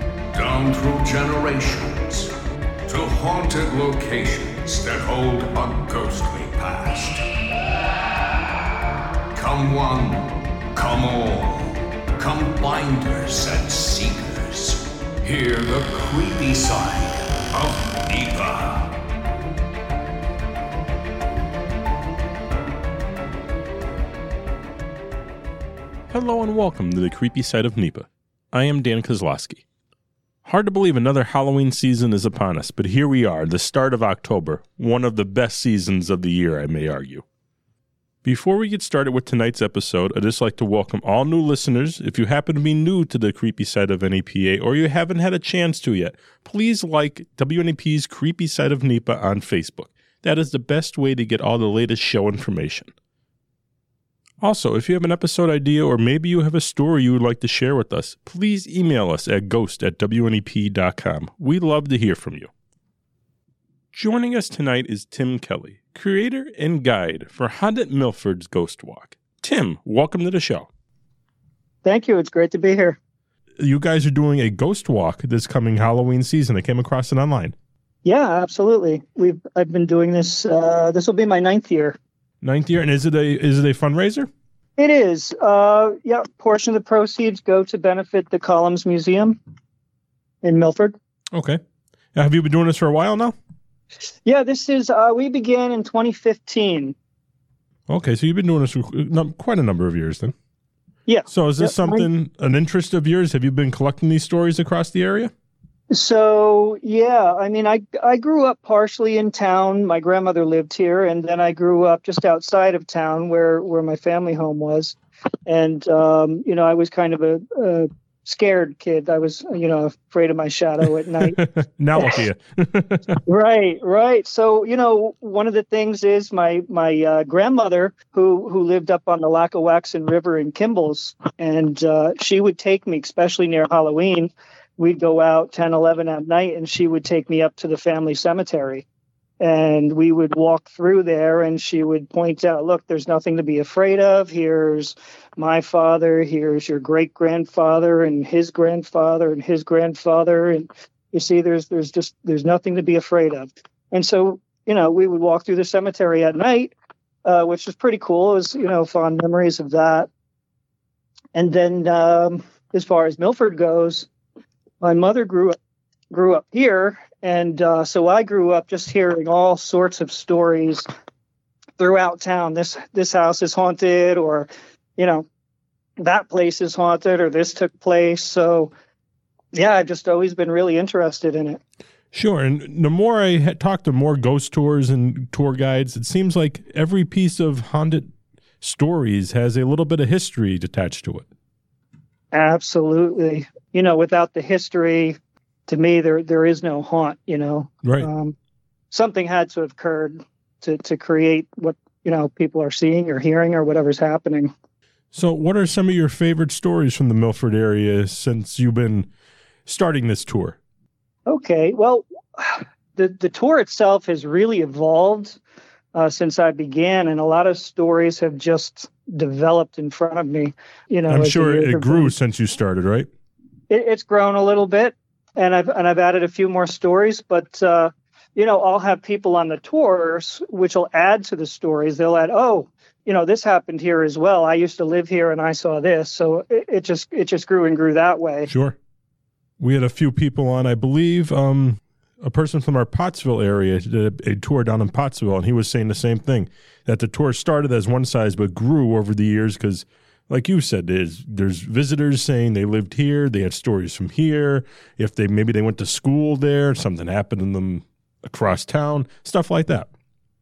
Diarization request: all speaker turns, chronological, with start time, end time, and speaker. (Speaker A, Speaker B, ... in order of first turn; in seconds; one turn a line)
Speaker A: 0.3-2.3
Speaker A: 2.9-7.2
Speaker A: 9.3-18.9
Speaker B: 26.1-29.6
Speaker B: 30.4-37.2
Speaker B: 38.2-52.9
Speaker B: 54.4-62.5
Speaker B: 63.9-70.7
Speaker C: 71.8-73.0
Speaker B: 73.6-77.5
Speaker C: 78.0-82.0
Speaker B: 82.4-84.3
Speaker C: 84.8-89.4
Speaker C: 90.4-90.9
Speaker B: 91.3-91.6
Speaker B: 92.2-93.3
Speaker C: 94.2-96.9
Speaker B: 97.9-100.3
Speaker C: 101.1-102.1
Speaker B: 101.3-105.3
Speaker C: 105.9-121.4
Speaker B: 121.2-123.2
Speaker C: 123.2-138.8
Speaker C: 139.4-156.7
Speaker C: 157.2-160.1
Speaker C: 161.3-164.1
Speaker C: 164.8-165.6
Speaker C: 166.1-170.8
Speaker C: 171.8-175.2
Speaker C: 176.0-178.7
Speaker C: 179.5-181.6
Speaker B: 182.1-191.2
Speaker C: 192.3-198.3
Speaker C: 198.9-204.5
Speaker B: 205.1-209.1
Speaker B: 209.7-210.6
Speaker C: 211.3-215.4
Speaker C: 215.9-222.1
Speaker B: 221.1-223.1
Speaker C: 223.7-238.5
Speaker B: 238.5-238.8
Speaker B: 239.6-259.9